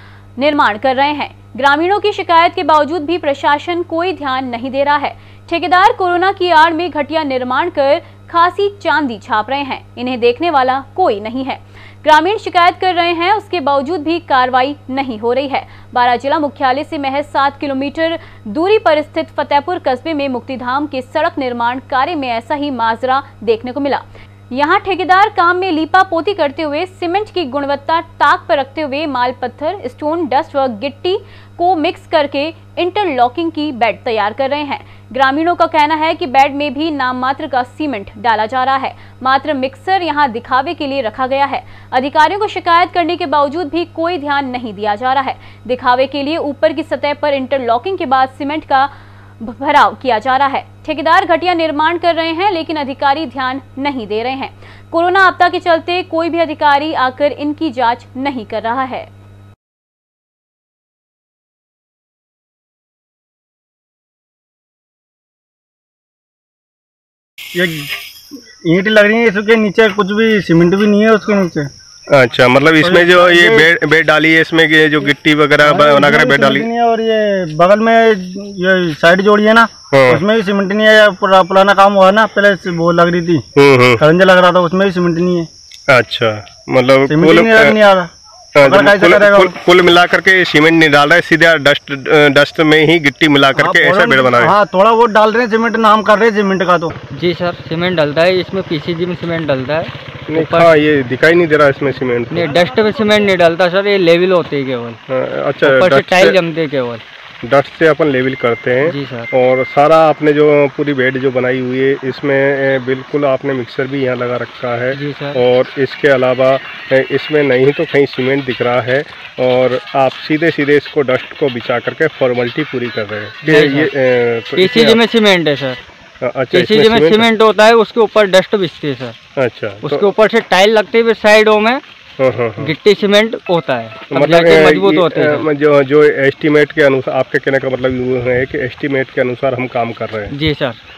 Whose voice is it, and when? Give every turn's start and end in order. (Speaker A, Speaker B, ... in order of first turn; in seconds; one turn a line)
Speaker A: 0.4-59.1
Speaker B: 67.6-67.9
Speaker B: 68.7-71.7
Speaker C: 72.1-76.7
Speaker B: 72.8-73.7
Speaker B: 75.7-83.4
Speaker C: 79.9-80.2
Speaker C: 83.6-84.0
Speaker B: 84.0-85.5
Speaker C: 85.9-87.8
Speaker B: 87.1-88.1
Speaker C: 88.6-94.5
Speaker B: 88.6-89.5
Speaker B: 93.6-96.9
Speaker D: 97.1-100.7
Speaker C: 100.3-102.5
Speaker D: 102.3-105.0
Speaker C: 105.1-106.4
Speaker D: 105.6-107.0
Speaker C: 107.5-125.0
Speaker D: 108.8-109.3
Speaker D: 114.9-115.4
Speaker D: 123.5-123.9
Speaker D: 124.6-125.8
Speaker C: 126.2-127.3
Speaker D: 126.5-129.2
Speaker C: 129.4-130.1
Speaker D: 129.8-131.8
Speaker C: 132.2-132.7
Speaker D: 132.6-135.5
Speaker C: 134.1-140.3
Speaker D: 140.3-140.8